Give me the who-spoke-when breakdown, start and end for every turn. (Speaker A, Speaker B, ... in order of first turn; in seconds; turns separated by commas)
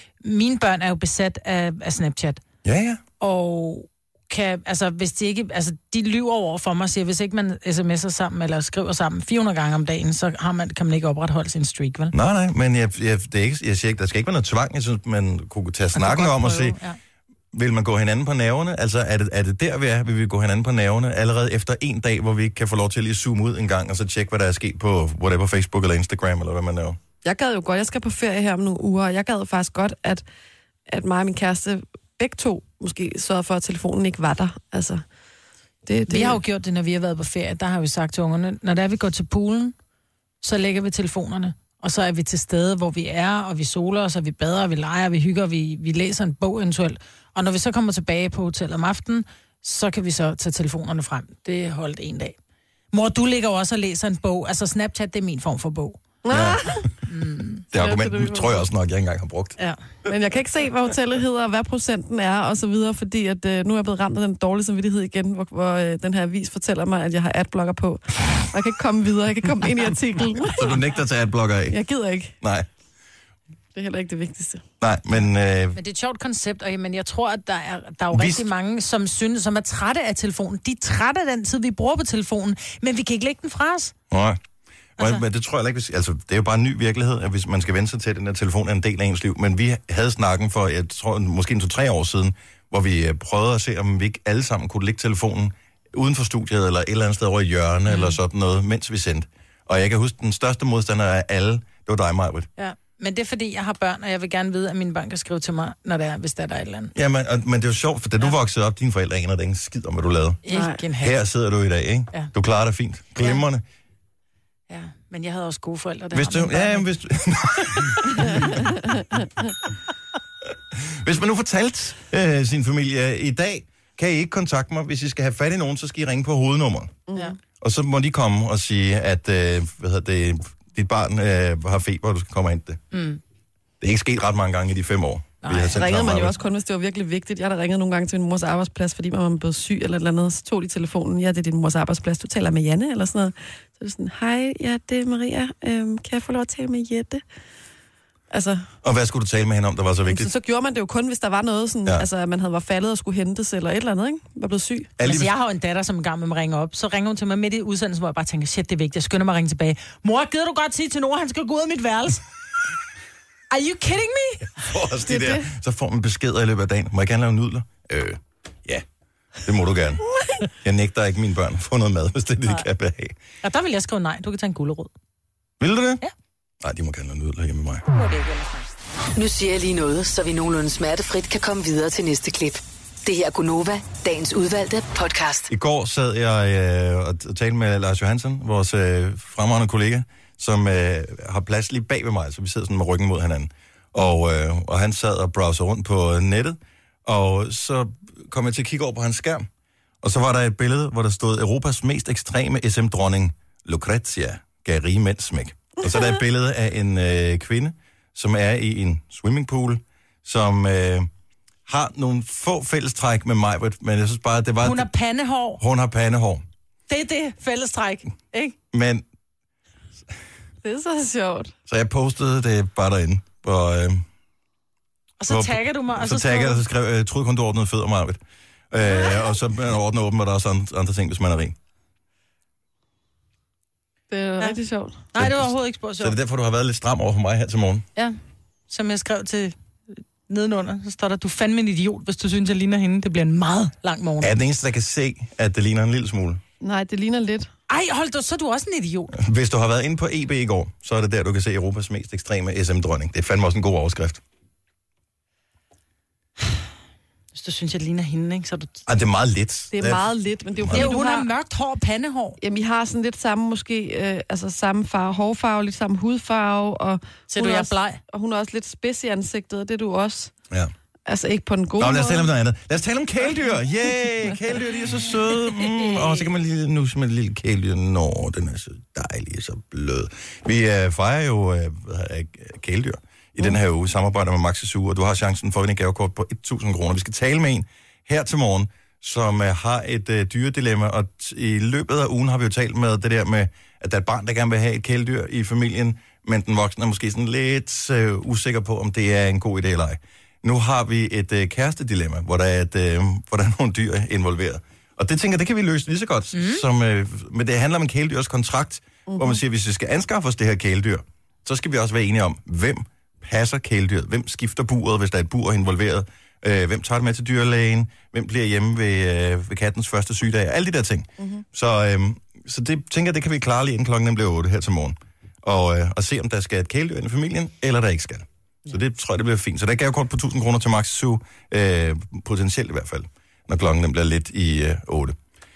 Speaker A: 0.2-2.4, Speaker B: 2.6-3.0, Speaker A: 3.2-12.1, Speaker B: 12.1-16.8, Speaker A: 15.9-17.0, Speaker B: 17.5-27.0, Speaker C: 27.2-30.2, Speaker C: 30.9-35.0, Speaker C: 35.9-36.4, Speaker A: 36.1-39.8, Speaker A: 40.4-52.4, Speaker A: 52.9-56.0, Speaker C: 56.2-56.9, Speaker B: 56.3-56.9, Speaker A: 57.1-57.6, Speaker B: 57.7-59.6, Speaker C: 57.7-58.6, Speaker C: 60.1-70.8, Speaker B: 70.6-71.8, Speaker C: 71.7-72.3, Speaker B: 72.4-72.7, Speaker C: 73.8-74.6, Speaker B: 74.8-75.8, Speaker A: 75.8-83.9, Speaker B: 78.1-78.5, Speaker B: 84.1-84.4, Speaker B: 85.0-102.5, Speaker A: 97.9-98.2, Speaker A: 102.6-106.9, Speaker B: 107.0-110.4, Speaker A: 110.5-111.2, Speaker C: 110.5-110.8, Speaker B: 111.0-113.6, Speaker A: 114.7-116.9, Speaker B: 116.1-118.5, Speaker C: 118.2-119.0, Speaker B: 120.7-127.0, Speaker C: 127.1-127.3, Speaker B: 127.6-132.8, Speaker A: 132.9-133.2, Speaker B: 133.8-136.4, Speaker A: 135.4-135.8, Speaker C: 135.7-147.2, Speaker C: 148.3-148.7, Speaker B: 148.8-150.3, Speaker C: 150.1-154.9, Speaker B: 155.0-155.3, Speaker A: 155.0-162.2, Speaker A: 163.5-164.6, Speaker B: 164.6-168.8, Speaker C: 165.1-165.4, Speaker B: 169.4-170.0, Speaker B: 170.6-173.2, Speaker A: 173.4-174.9, Speaker B: 175.6-176.0, Speaker B: 176.6-177.8, Speaker A: 178.0-178.5, Speaker D: 179.2-185.5, Speaker B: 185.5-199.5, Speaker B: 200.0-211.1, Speaker B: 211.7-214.9, Speaker A: 214.6-215.6, Speaker B: 215.6-216.4, Speaker A: 216.9-218.6, Speaker B: 218.7-219.1, Speaker C: 220.6-221.5, Speaker B: 221.7-224.0, Speaker A: 225.2-226.6, Speaker B: 225.3-228.2, Speaker B: 228.7-231.6, Speaker C: 234.1-235.0, Speaker A: 235.1-236.2, Speaker B: 235.2-237.9, Speaker A: 238.7-244.3, Speaker B: 244.2-246.4, Speaker C: 246.6-247.5, Speaker A: 247.7-249.1, Speaker B: 249.1-254.2, Speaker A: 257.3-258.9, Speaker B: 258.9-260.9, Speaker C: 259.7-261.3, Speaker A: 260.7-262.4, Speaker C: 262.4-270.3, Speaker A: 267.3-268.0, Speaker C: 271.1-272.3, Speaker B: 271.8-335.2, Speaker A: 306.3-306.6, Speaker C: 309.1-309.4